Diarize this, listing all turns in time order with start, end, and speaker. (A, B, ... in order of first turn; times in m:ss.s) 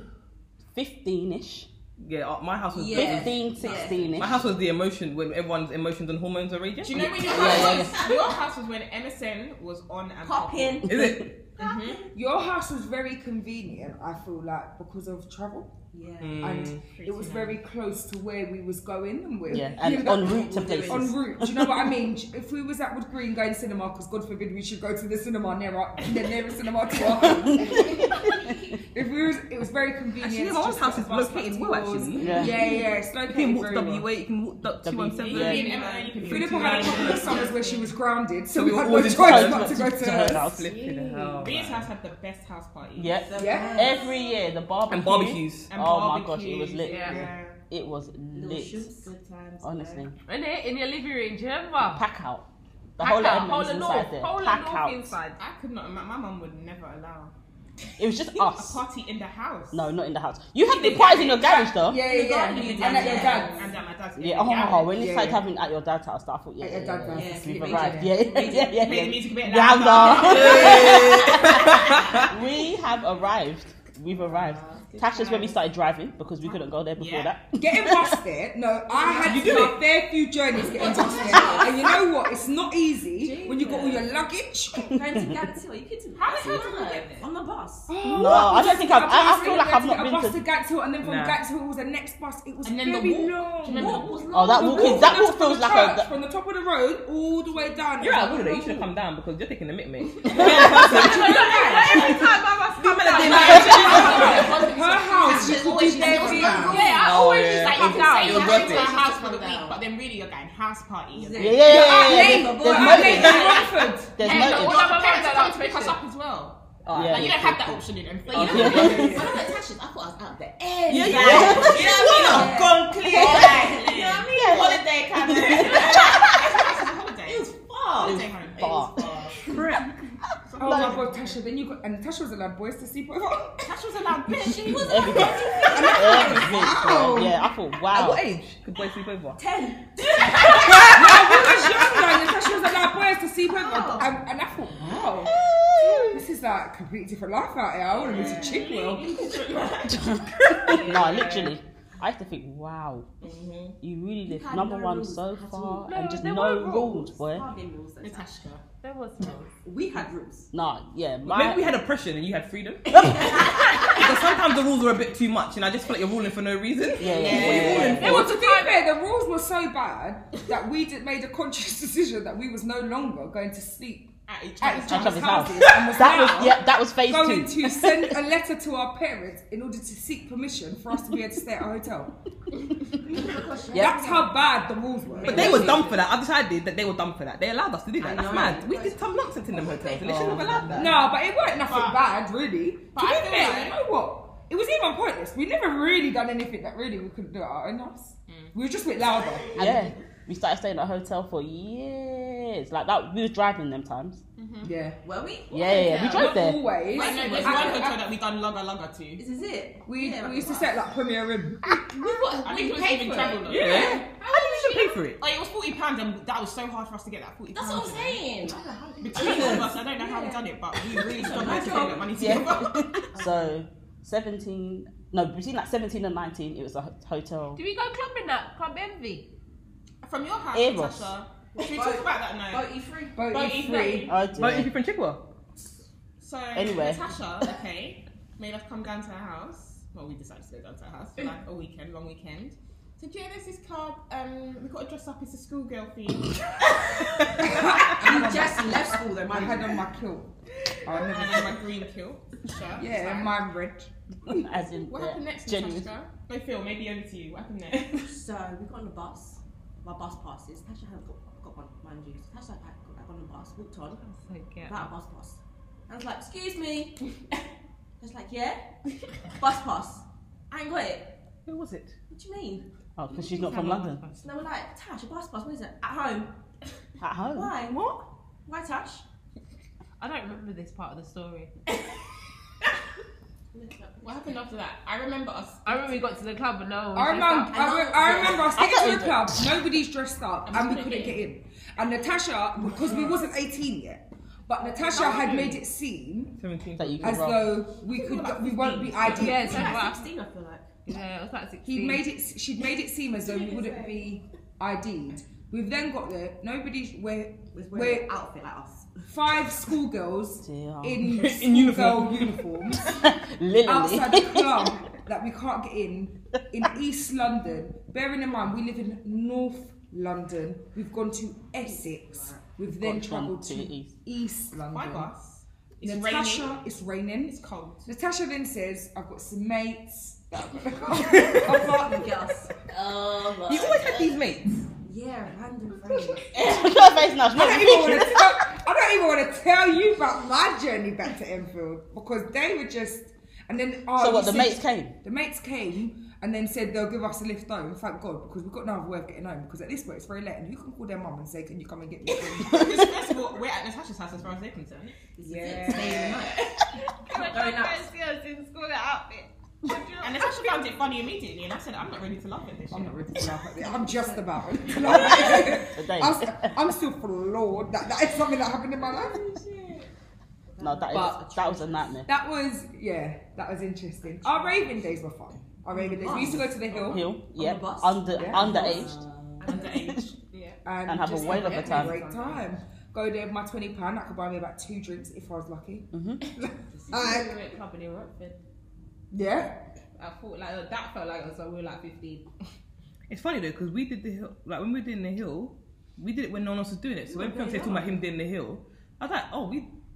0:00.7-0:01.7 A
0:02.0-0:03.5 B
0:02.7-0:04.1 C
0:02.9-0:04.4 A
0:04.2-0:07.3 B
0:06.8-0:10.9 D
0:06.9-0:08.0 A
0:07.2-0:08.4 C
0:10.2-0:10.9 C
0:10.9-0:11.3 B
0:10.9-0:11.3 A
0:11.6-0:12.0 D
0:11.6-0:12.1 C
0:12.1-0:15.7 E
0:15.9-0:16.4 C
0:16.2-0:16.9 B
0:16.4-0:28.4 E
0:16.8-0:17.6 D
0:19.5-0:22.1 A
0:20.1-0:21.1 C
0:27.1-0:28.6 A
0:28.9-0:34.1 E
0:30.2-0:32.4 B
0:32.2-0:32.7 A
0:32.3-0:32.8 C
0:33.2-0:35.7 B
0:34.8-0:35.7 A
0:35.2-0:37.9 D
0:35.3-0:37.7 C
0:36.2-0:40.5 E
0:38.5-0:41.9 B
0:39.2-0:40.8 A
0:40.7-0:41.4 F
0:40.9-0:41.4 C
0:41.4-0:43.3 D
0:43.0-0:48.9 A
0:43.2-0:44.3 C
0:43.4-0:44.0 E
0:44.9-0:45.7 B
0:45.7-0:47.6 D
0:46.8-0:47.2 G
0:48.3-0:50.1 C
0:49.6-0:50.1 A
0:50.2-0:52.0 G
0:51.9-0:52.4 A
0:53.0-0:55.1 A
0:53.0-0:55.4 G
0:55.4-0:57.3 D
0:58.0-0:58.8 A
0:58.3-0:59.9 D
0:59.7-1:02.0 A
1:00.6-1:01.7 D
1:01.8-1:03.7 E
1:01.9-1:03.7 C
1:02.5-1:05.0 D
1:04.2-1:18.2 A
1:05.0-1:05.4 E
1:06.6-1:08.2 E
1:07.1-1:08.9 C
1:08.2-1:11.4 D
1:10.2-1:12.3 B
1:10.4-1:10.7 C
1:14.2-1:15.0 C
1:15.1-1:15.5 D
1:16.4-1:17.3 D
1:17.6-1:25.0 E
1:18.9-1:19.6 C
1:19.2-1:19.8 B
1:20.6-1:22.0 C
1:23.2-1:24.1 C
1:24.8-1:27.9 C
1:26.2-1:27.2 D
1:27.9-1:38.8 E
1:28.1-1:30.4 A
1:31.0-1:31.4 B
1:32.6-1:34.2 D
1:33.6-1:35.2 C
1:34.3-1:36.1 A
1:38.0-1:44.5 B
1:40.3-1:42.1 E
1:40.4-1:45.5 G
1:43.2-1:46.9 E
1:43.3-1:46.9 C
1:43.7-1:44.5 D
1:45.7-1:46.8 F
1:46.4-1:48.6 G
1:46.5-1:51.7 D
1:46.9-1:48.9 B
1:48.4-1:49.8 F
1:48.5-1:49.1 C
1:51.1-1:53.7 C
1:51.4-1:53.6 A
1:51.6-1:54.2 E
1:54.1-1:54.8 A
1:54.2-1:56.0 G
1:54.2-1:59.4 D
1:56.8-1:57.4 B
1:56.9-1:57.8 A
1:58.3-1:59.1 B
1:58.4-1:59.3 A
1:58.4-2:06.2 F
1:58.6-1:59.6 C
1:58.7-1:59.3 E
2:00.9-2:03.5 A
2:00.9-2:06.4 C
2:01.2-2:04.3 D
2:04.3-2:05.8 A
2:05.5-2:08.8 D
2:07.6-2:09.6 C
2:08.0-2:09.0 A
2:09.5-2:09.9 B
2:10.4-2:11.4 D
2:10.6-2:13.6 E
2:10.6-2:10.9 A
2:13.6-2:16.3 D
2:14.6-2:18.2 A
2:14.6-2:17.2 C
2:15.6-2:17.4 E
2:17.9-2:19.4 B
2:19.4-2:22.0 C
2:20.6-2:25.3 E
2:23.5-2:24.1 C
2:24.8-2:25.3 A
2:25.8-2:26.2 A
2:26.0-2:29.2 E
2:27.9-2:28.8 C
2:28.0-2:31.3 D
2:29.9-2:33.1 A
2:30.9-2:31.2 C
2:33.2-2:36.0 C
2:33.8-2:37.4 A
2:35.9-2:37.0 G
2:36.6-2:38.3 C
2:38.0-2:38.6 D
2:38.8-2:39.6 G
2:39.6-2:40.5 C
2:40.5-2:41.8 A
2:41.2-2:48.2 B
2:42.9-2:44.1 C
2:43.0-2:43.4 A
2:47.0-2:48.2 A
2:47.1-2:48.1 C
2:47.2-3:02.1 E
2:47.3-2:47.8 D
2:47.9-2:48.8 G
2:54.3-2:55.9 D
2:54.9-2:58.2 A
3:03.0-3:04.3 C
3:03.7-3:04.1 A
3:03.7-3:05.9 E
3:05.0-3:05.9 C
3:05.2-3:11.0 B
3:05.4-3:05.8 A
3:08.0-3:10.9 C
3:10.0-3:10.9 A
3:10.8-3:19.6 E
3:11.6-3:12.0 D
3:12.9-3:13.8 D
3:18.3-3:18.5 D
3:19.5-3:19.9 C
3:19.6-3:24.2 A
3:24.4-3:24.7 D
3:24.6-3:25.0 E
3:25.0-3:28.0 C
3:25.5-3:26.6 A
3:26.1-3:28.0 E
3:26.9-3:29.2 D
3:29.2-3:30.9 C
3:29.8-3:31.8 E
3:31.9-3:34.0 C
3:32.1-3:33.4 F
3:32.4-3:34.0 D
3:33.4-3:35.2 B
3:34.2-3:35.0 G
3:35.2-3:38.2 D
3:37.5-3:38.6 F
3:38.4-3:42.4 C
3:39.0-3:43.0 D
3:42.1-3:47.6 A
3:43.1-3:43.5 C
3:47.6-3:49.3 G
3:50.0-3:52.7 D
3:50.5-3:51.1 A
3:51.5-3:53.7 C
3:53.1-3:54.2 E
3:53.3-3:54.1 D
3:54.0-3:54.8 A
3:54.3-3:55.2 B
3:56.2-4:06.9 D
3:56.5-3:57.1 A
4:07.3-4:11.6 E
4:07.5-4:09.8 C
4:10.9-4:13.3 D
4:12.8-4:14.4 E
4:12.8-4:13.2 C
4:14.3-4:15.9 A
4:14.8-4:18.0 D
4:17.8-4:24.0 C
4:23.9-4:24.9 G
4:24.6-4:27.0 C
4:28.0-4:31.1 C
4:31.4-4:31.9 B
4:32.1-4:32.7 C
4:33.0-4:34.0 A
4:33.1-4:34.3 G
4:34.2-4:36.3 C
4:37.0-4:37.6 A
4:37.3-4:37.8 C
4:37.7-4:38.0 B
4:38.4-4:39.0 C
4:40.0-4:41.5 G
4:43.5-4:44.4 C
4:44.0-4:46.0 D
4:45.6-4:47.6 G
4:46.9-4:56.4 E
4:47.4-4:48.6 C
4:48.5-4:49.6 A
4:50.4-4:51.2 D
4:54.9-4:55.6 G
4:56.4-4:57.4 B
4:56.8-4:57.6 A
4:57.0-4:59.7 E
4:57.9-5:00.7 C
4:59.1-5:00.1 G
5:00.9-5:02.1 G
5:01.6-5:08.1 E
5:03.3-5:04.0 C
5:07.5-5:08.9 C
5:09.1-5:13.0 E
5:10.4-5:11.2 A
5:11.0-5:12.4 B
5:12.8-5:14.8 A
5:13.6-5:25.1 E
5:21.6-5:22.4 C
5:22.7-5:23.9 A
5:24.7-5:26.6 D
5:25.8-5:32.2 E
5:27.2-5:27.9 D
5:31.4-5:32.7 C
5:32.7-5:34.1 F
5:33.4-5:34.6 B
5:33.5-5:34.0 C
5:34.8-5:36.7 C
5:36.3-5:38.4 A
5:37.3-5:52.9 E
5:43.9-5:45.0 A
5:52.4-5:55.0 D
5:55.2-5:56.4 C
5:55.2-5:56.1 E
5:57.0-6:00.3 G
5:57.1-5:57.9 C
5:59.7-6:00.0 C
6:00.0-6:03.1 D
6:02.7-6:09.3 E
6:03.6-6:05.6 C
6:05.6-6:06.7 A
6:08.8-6:09.9 C
6:10.5-6:12.0 C
6:10.6-6:12.1 A
6:10.9-6:11.2 E
6:12.0-6:17.1 E
6:14.0-6:15.0 C
6:15.7-6:19.8 C
6:16.1-6:19.0 A
6:18.2-6:18.8 E
6:19.4-6:20.6 D
6:19.7-6:20.1 A
6:20.6-6:27.4 E
6:20.9-6:22.0 A
6:21.6-6:22.0 G
6:22.0-6:22.3 C
6:25.9-6:26.2 A
6:26.7-6:27.2 C
6:26.9-6:28.4 G
6:29.1-6:29.6 E
6:30.0-6:32.3 G
6:33.1-6:39.7 B
6:37.1-6:37.8 C
6:37.4-6:37.8 G